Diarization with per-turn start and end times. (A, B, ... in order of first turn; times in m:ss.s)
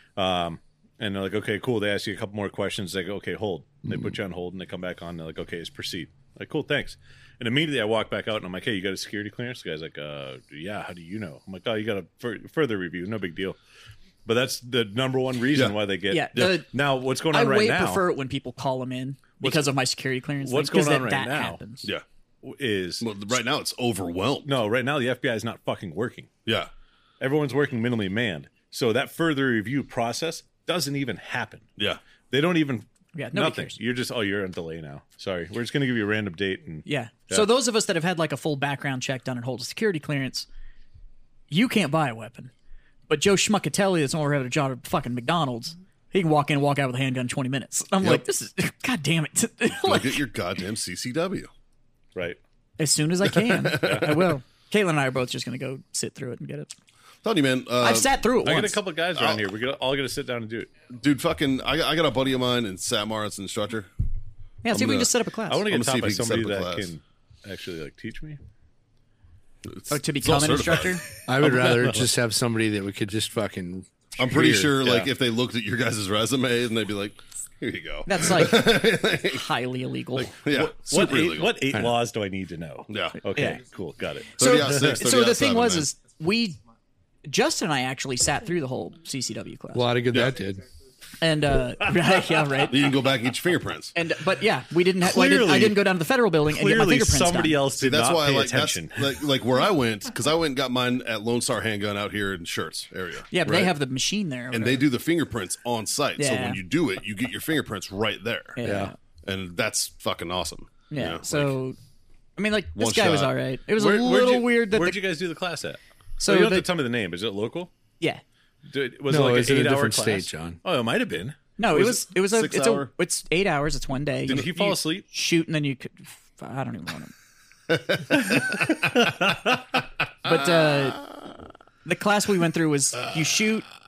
0:00.2-0:13.6 A
0:14.3-0:18.0 A
0:16.1-0:16.7 B
0:16.4-0:16.6 C
0:17.3-0:21.9 B
0:19.4-0:19.7 A
0:20.4-0:21.6 A
0:22.4-0:23.1 A
0:23.0-0:24.5 C
0:24.4-0:26.3 A
0:27.2-0:31.7 A
0:32.3-0:37.5 A
0:33.2-0:33.8 B
0:36.8-0:40.5 B
0:41.5-0:42.5 B
0:43.1-0:50.2 B
0:49.8-0:51.5 C
0:52.8-0:56.8 B
0:53.4-0:54.3 C
0:53.8-0:54.1 A
0:57.2-0:58.2 C
0:57.8-0:58.8 B
0:58.4-1:00.7 A
0:59.2-0:59.4 C
1:00.9-1:03.9 C
1:04.6-1:05.6 B
1:04.7-1:05.1 C
1:05.5-1:08.4 A
1:05.7-1:06.9 C
1:09.7-1:11.0 C
1:09.9-1:11.0 B
1:11.3-1:14.8 D
1:11.4-1:12.1 A
1:14.2-1:19.4 C
1:14.8-1:15.1 A
1:18.1-1:20.3 B
1:20.2-1:21.5 C
1:20.5-1:25.0 A
1:21.7-1:22.0 D
1:22.9-1:23.2 C
1:23.3-1:23.6 B
1:24.4-1:25.9 C
1:24.4-1:26.6 B
1:27.2-1:29.9 B
1:29.7-1:30.6 D
1:30.1-1:30.4 C
1:31.2-1:32.8 B
1:32.7-1:33.9 C
1:34.0-1:37.6 B
1:35.0-1:35.8 A
1:36.5-1:39.3 A
1:37.8-1:43.8 C
1:43.3-1:44.8 B
1:44.5-1:48.6 C
1:46.2-1:46.6 B
1:48.6-1:49.0 B
1:48.6-1:48.9 D
1:49.2-1:51.6 C
1:50.9-1:51.8 B
1:52.4-1:55.0 B
1:52.8-1:53.3 C
1:53.8-1:57.7 A
1:56.2-1:56.7 B
1:58.7-2:01.4 A
1:59.1-2:00.6 D
2:01.6-2:07.1 B
2:01.7-2:02.9 C
2:04.3-2:05.0 A
2:07.9-2:08.7 C
2:08.2-2:09.6 A
2:10.2-2:11.1 B
2:11.8-2:13.7 B